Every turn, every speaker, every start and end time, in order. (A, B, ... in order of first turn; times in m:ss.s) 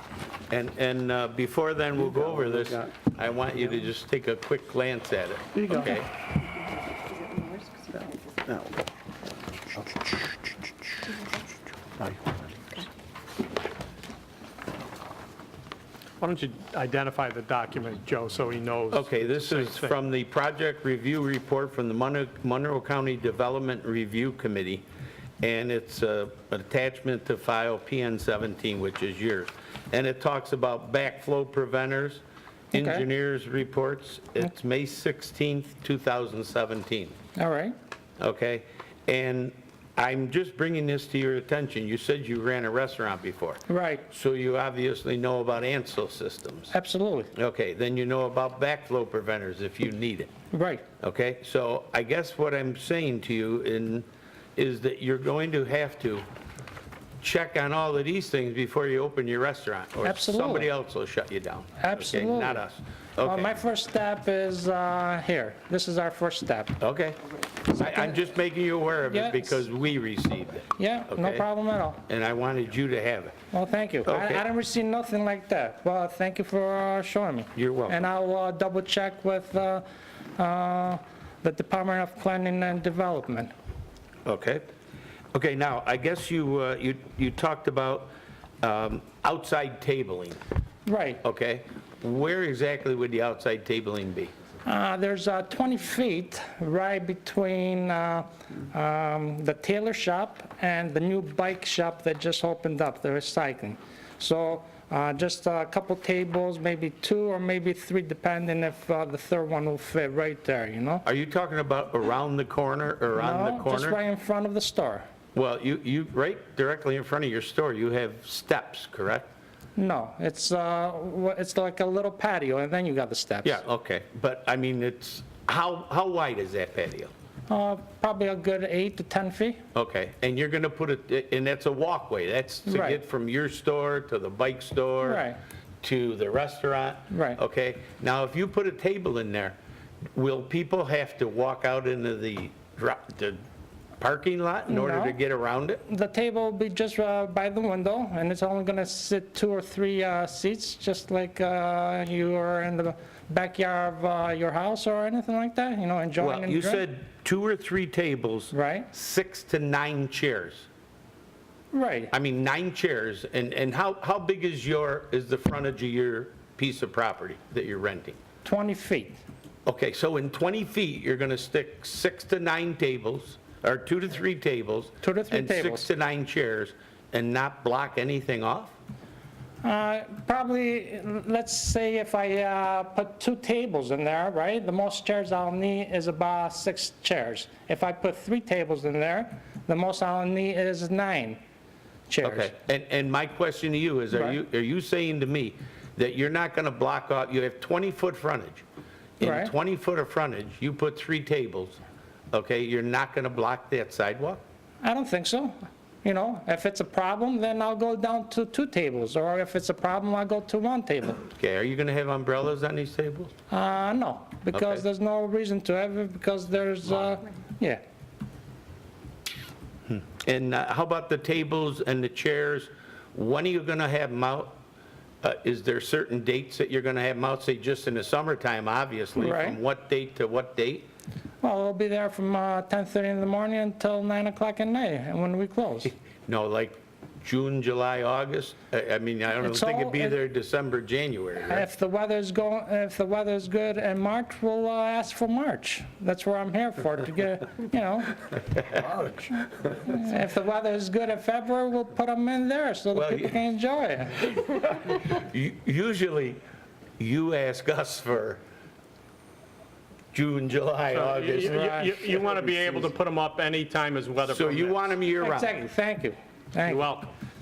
0:00.5-0:06.1 A
0:02.0-0:03.0 B
0:05.5-0:06.0 B
0:07.9-0:08.8 B
0:09.5-0:10.2 B
0:12.0-0:12.8 B
0:16.2-0:19.9 C
0:18.9-0:24.8 A
0:25.4-0:37.1 A
0:32.7-0:33.0 D
0:37.4-0:37.8 D
0:38.2-0:46.7 A
0:43.7-0:44.0 D
0:46.7-0:47.3 D
0:47.3-0:50.3 A
0:50.5-0:50.8 D
0:51.0-0:56.2 A
0:57.2-1:03.6 A
1:00.0-1:00.7 D
1:01.8-1:02.6 D
1:03.2-1:06.8 D
1:06.8-1:07.2 A
1:07.7-1:11.4 A
1:07.8-1:08.1 D
1:09.1-1:09.6 D
1:10.8-1:12.0 D
1:12.0-1:13.4 A
1:13.5-1:19.8 D
1:14.0-1:14.4 A
1:17.5-1:18.0 A
1:20.4-1:23.5 D
1:24.2-1:24.6 A
1:25.3-1:30.4 A
1:30.8-1:31.2 D
1:31.2-1:34.3 A
1:34.6-1:51.0 D
1:51.0-1:54.0 A
1:53.2-1:55.0 D
1:55.3-1:59.3 A
1:59.8-2:03.6 D
2:03.4-2:07.1 A
2:07.5-2:09.6 D
2:09.7-2:15.2 A
2:12.6-2:13.0 D
2:15.0-2:15.4 D
2:15.8-2:19.6 A
2:17.1-2:17.4 D
2:20.1-2:23.4 A
2:24.0-2:25.8 A
2:24.7-2:25.2 D
2:25.9-2:36.8 D
2:36.2-2:40.7 A
2:38.5-2:38.9 D
2:41.7-2:42.1 D
2:42.1-2:48.2 A
2:48.4-2:49.2 D
2:49.6-2:58.8 A
2:55.0-2:55.8 D
2:59.6-3:11.4 D
3:12.1-3:12.5 D
3:12.2-3:18.6 A
3:14.1-3:14.4 D
3:19.2-3:21.8 A
3:19.2-3:19.5 D
3:22.3-3:24.4 A
3:24.8-3:31.2 D
3:31.2-3:33.3 A
3:33.5-3:37.8 D
3:34.5-3:34.8 A
3:39.9-3:44.6 A
3:45.2-3:50.9 A
3:49.1-3:49.6 D
3:51.4-3:55.9 D
3:56.2-4:01.6 A
3:59.4-4:00.2 D
4:01.5-4:08.2 D
4:09.8-4:14.2 D
4:12.9-4:13.4 A
4:14.7-4:16.4 A
4:17.0-4:18.4 A
4:20.1-4:21.6 A
4:20.9-4:24.8 C
4:21.5-4:22.0 D
4:24.3-4:25.5 A
4:25.2-4:26.9 D
4:26.6-4:27.1 C